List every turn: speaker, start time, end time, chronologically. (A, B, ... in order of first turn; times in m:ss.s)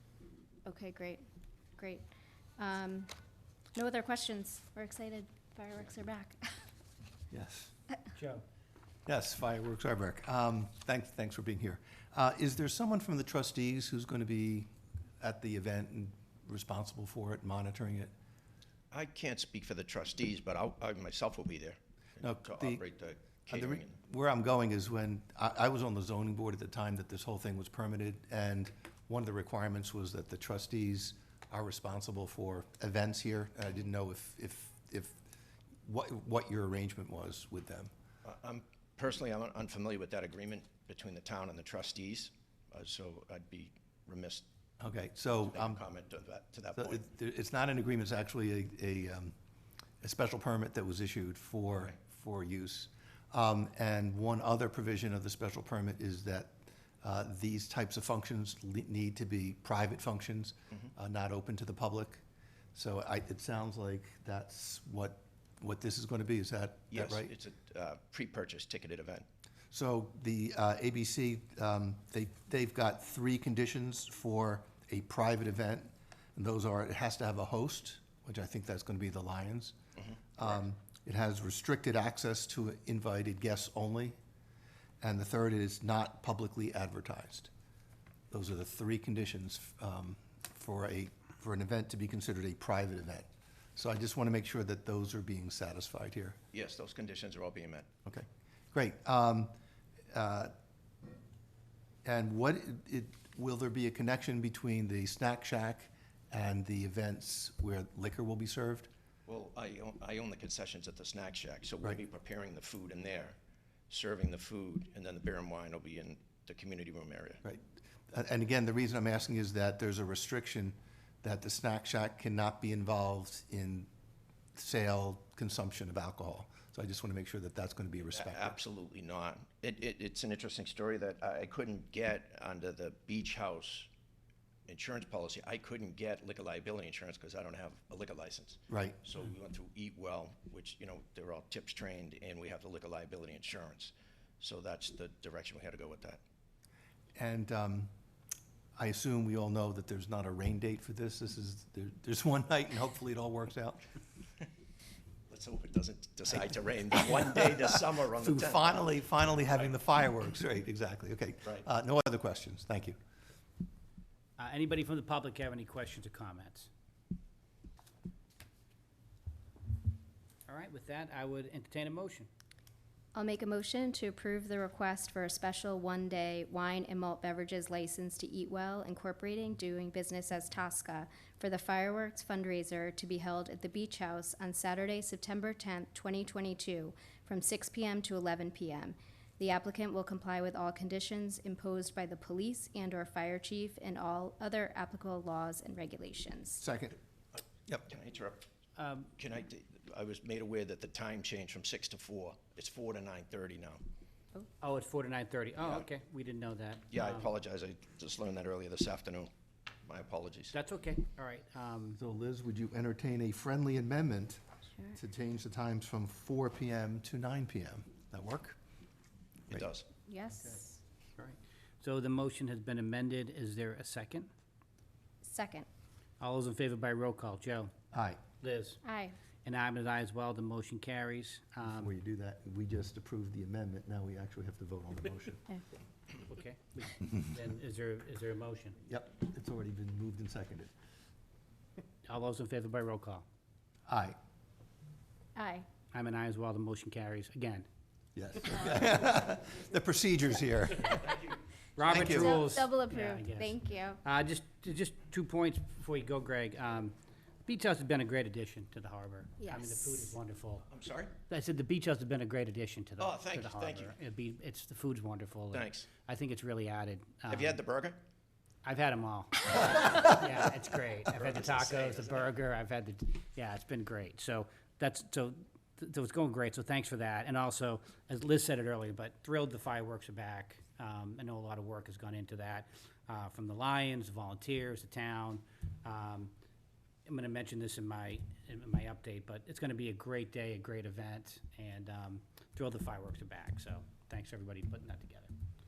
0:00.7-0:01.2 A
0:01.8-0:02.0 A
0:02.6-0:03.1 A
0:03.8-0:06.6 A
0:07.3-0:07.7 B
0:08.2-0:08.4 C
0:09.1-0:14.7 B
0:15.2-0:18.1 B
0:18.9-0:24.0 D
0:22.2-0:22.8 B
0:23.5-0:35.2 B
0:35.8-0:37.9 B
0:38.2-0:44.5 D
0:44.8-0:45.8 B
0:45.5-0:47.0 D
0:46.8-0:49.4 B
0:50.0-1:02.2 B
1:02.8-1:07.3 B
1:06.9-1:09.3 D
1:09.7-1:19.8 B
1:20.4-1:24.2 B
1:25.0-1:27.5 B
1:28.3-1:36.4 B
1:36.5-1:37.9 D
1:38.1-1:39.5 B
1:40.1-1:40.5 B
1:42.0-1:48.9 B
1:49.3-1:53.4 D
1:53.9-1:57.4 D
1:57.4-2:03.9 B
2:04.6-2:08.6 B
2:08.2-2:13.9 D
2:14.7-2:26.2 D
2:18.7-2:19.0 B
2:27.2-2:27.9 B
2:28.8-2:33.9 B
2:35.3-2:39.8 D
2:38.2-2:43.0 B
2:44.4-2:46.7 C
2:50.5-2:52.3 C
2:53.1-3:16.6 A
3:16.6-3:17.0 B
3:17.9-3:18.4 D
3:18.8-3:19.1 C
3:19.2-3:23.8 D
3:24.6-3:27.3 C
3:25.6-3:25.9 D
3:26.9-3:29.3 D
3:29.8-3:30.6 D
3:30.5-3:32.0 C
3:32.0-3:34.4 B
3:35.0-3:38.6 B
3:39.5-3:39.9 D
3:40.1-3:40.8 A
3:41.2-3:44.3 C
3:45.2-3:45.7 A
3:46.2-3:47.7 C
3:47.9-3:48.2 B
3:48.4-3:48.8 C
3:48.8-3:49.2 A
3:49.4-3:51.9 C
3:51.6-3:55.4 B
3:56.2-3:58.8 C
3:58.9-4:00.7 B
4:02.0-4:03.3 C
4:03.9-4:04.2 B
4:05.4-4:05.7 A
4:05.9-4:07.7 C
4:08.2-4:11.0 B
4:10.9-4:11.4 D
4:11.8-4:20.6 C
4:11.8-4:12.5 B
4:11.9-4:14.0 A
4:19.4-4:20.1 A
4:20.7-4:21.1 D
4:21.3-4:27.6 C
4:23.0-4:24.0 D
4:25.5-4:25.9 D
4:27.3-4:28.0 D
4:28.6-4:46.3 C
4:31.1-4:32.3 D
4:47.1-4:55.3 C